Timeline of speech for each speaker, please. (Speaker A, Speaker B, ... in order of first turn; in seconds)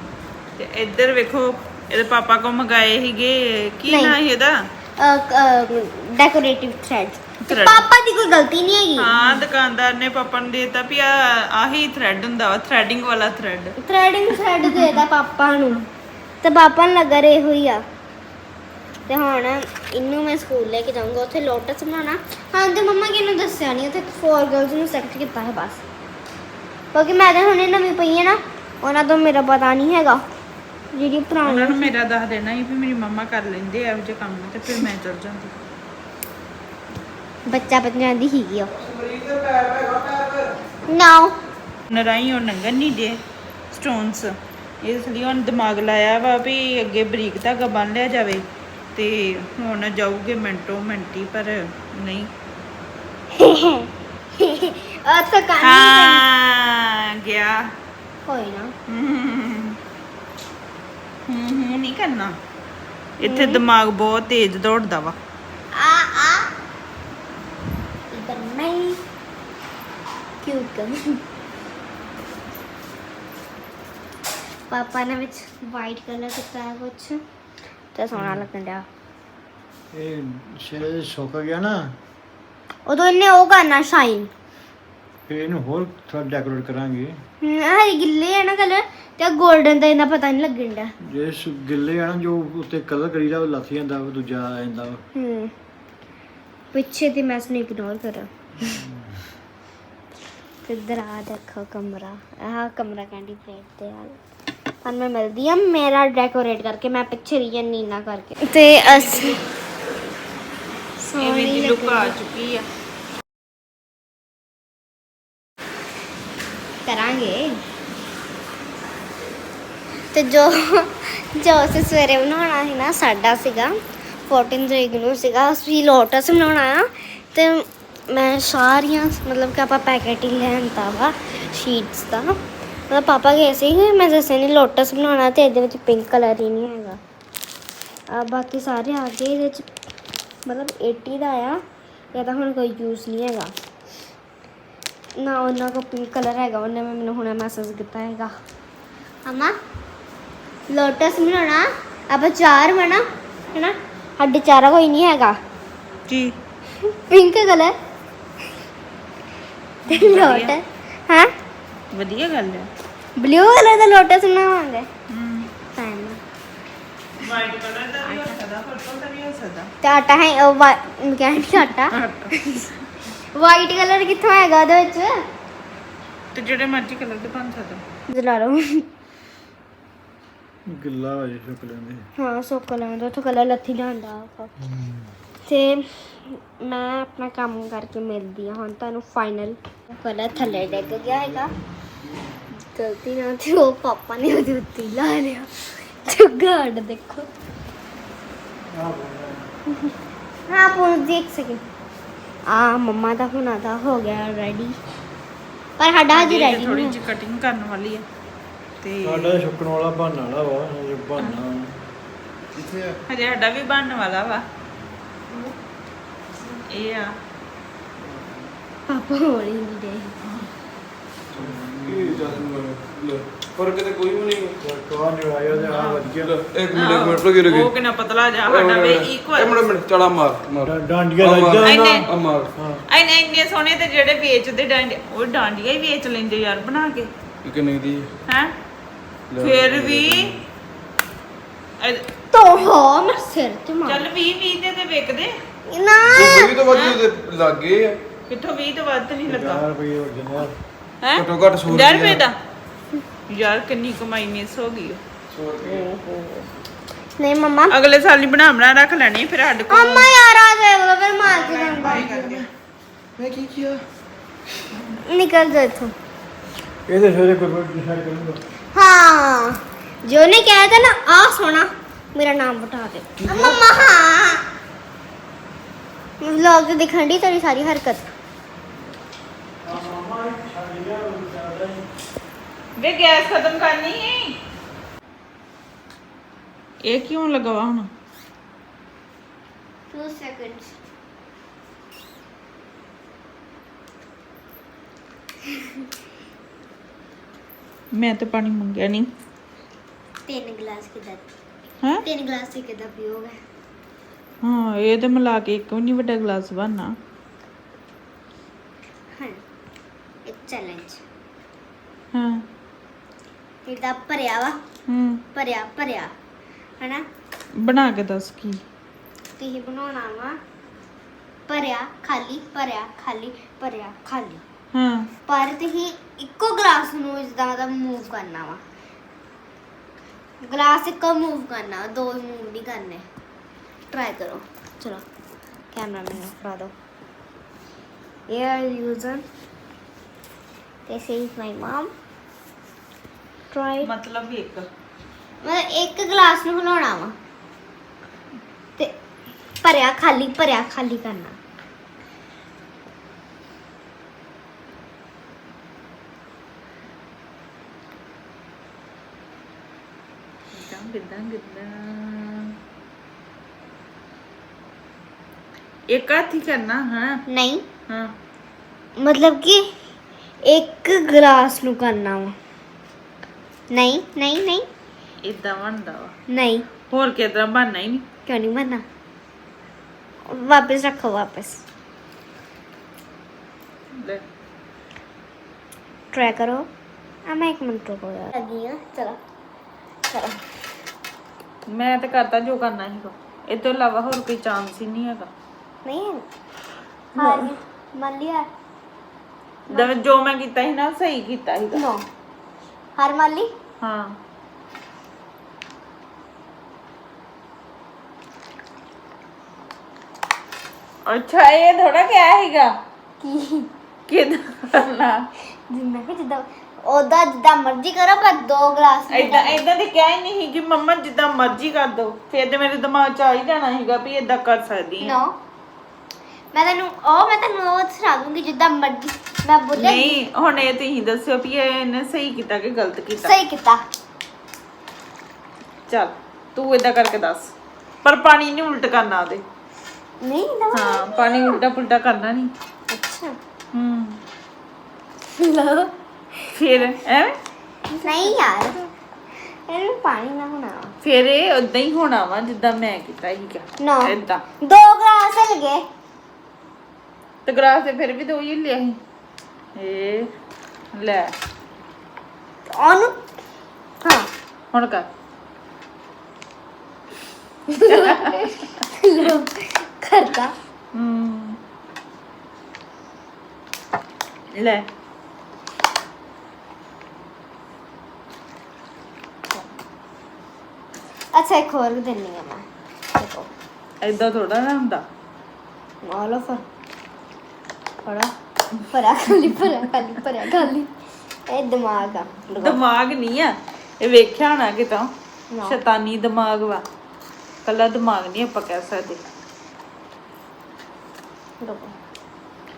Speaker A: 0.6-4.6, 7.5-7.8, 9.0-13.7, 14.6-15.0, 31.4-35.5, 41.9-43.2, 43.7-52.3, 55.6-57.7, 58.9-59.8, 61.3-62.4, 63.2-65.2, 108.8-109.4, 111.2-112.7, 156.1-156.3, 159.8-160.5, 161.9-162.7, 165.1-165.5, 167.2-169.7, 171.5-172.3, 176.3-177.8, 206.1-208.0, 208.8-209.4, 213.1-214.4, 216.7-217.1, 220.2-220.5, 225.6-226.0, 226.7-229.7, 231.6-232.1, 232.9-237.1, 238.3-238.5, 239.4-240.3, 241.8-242.0, 243.8-245.3, 246.7-247.0, 248.3-249.6, 251.0-252.3, 253.3-255.0, 257.7-260.1, 261.2-262.5, 282.8-284.4, 286.8-287.9, 297.9-299.1, 304.4-306.9, 312.1-312.4, 314.9-315.2, 317.5-318.6, 324.7-325.1, 343.8-344.7, 360.5-362.6, 365.9-367.2, 375.2-376.1, 376.9-378.0, 384.0-384.2, 391.7-395.3, 397.2-397.5, 399.7-401.8, 403.8-404.2, 411.0-412.7, 414.1-415.2, 419.1-425.1, 429.8-433.3, 435.9-439.4, 440.7-442.5, 443.7-444.2, 446.5-447.4, 447.9-448.5, 451.0-454.4, 457.4-459.0, 459.8-460.3, 460.9-461.3, 464.7-465.1, 467.9-468.3, 470.9-471.6, 474.5-474.8, 484.0-485.0, 492.6-495.1, 495.6-496.8, 497.6-499.2
Speaker B: 3.9-4.2, 5.0-9.2, 13.8-15.8, 16.4-17.8, 19.1-25.8, 26.9-30.2, 30.9-31.9, 37.5-38.7, 40.9-41.3, 53.4-56.2, 58.2-58.7, 63.2-63.6, 65.7-66.5, 68.1-69.0, 70.4-71.2, 74.7-77.2, 77.9-78.8, 82.8-84.3, 87.4-90.9, 95.1-95.5, 96.7-98.8, 100.7-104.2, 104.8-109.4, 111.0-112.1, 116.8-117.6, 120.1-132.3, 132.9-137.0, 138.1-139.7, 140.4-141.6, 142.1-143.5, 145.2-148.3, 149.2-149.5, 150.7-155.4, 156.9-157.7, 159.9-161.3, 163.2-164.9, 165.7-166.2, 169.8-172.7, 173.3-175.2, 178.1-178.8, 182.2-184.5, 185.4-191.5, 192.6-195.5, 196.0-197.3, 200.5-201.6, 202.5-204.8, 205.8-206.9, 218.9-220.1, 242.3-244.1, 245.7-246.6, 255.6-256.5, 257.2-257.7, 259.7-262.2, 265.0-265.9, 268.7-274.4, 276.2-278.1, 289.9-290.7, 300.3-301.2, 302.0-303.3, 310.3-311.0, 313.6-314.6, 315.3-316.1, 316.8-317.0, 319.4-320.4, 321.5-324.4, 325.3-328.6, 330.4-333.1, 333.9-335.0, 335.7-336.7, 338.3-339.2, 340.9-341.9, 343.5-343.9, 345.4-347.1, 349.6-351.4, 367.3-367.6, 369.0-369.7, 370.4-372.3, 373.7-374.7, 376.3-376.6, 378.3-378.8, 380.3-381.6, 386.1-386.7, 387.3-389.2, 390.1-390.4, 395.8-396.2, 397.2-398.5, 401.7-402.0, 403.0-403.5, 413.2-413.7, 415.7-419.6, 425.0-425.3, 426.5-430.1, 433.2-433.8, 440.2-441.6, 442.9-443.4, 445.3-446.5, 448.0-448.8, 449.4-450.9, 453.8-455.8, 462.7-463.2, 464.0-464.3, 467.7-470.5, 481.3-483.5, 486.0-486.6, 488.0-490.9, 491.5-492.8, 495.5-495.8, 501.6-501.9
Speaker C: 38.8-40.5, 212.5-213.0, 221.4-224.6, 226.2-227.7, 228.4-232.5, 237.4-238.1, 239.3-240.3, 246.1-248.0, 251.1-252.2, 255.3-255.8, 261.8-262.4, 263.2-263.8, 273.2-273.6
Speaker D: 78.1-78.4, 79.9-82.0, 85.3-87.2, 91.0-95.0, 98.7-99.1, 180.7-182.1, 184.6-185.1, 190.4-191.5, 198.7-199.5, 209.0-211.8, 218.0-218.3, 221.3-222.4, 224.6-226.4, 230.6-232.8, 249.2-250.6, 266.9-268.4, 279.6-281.9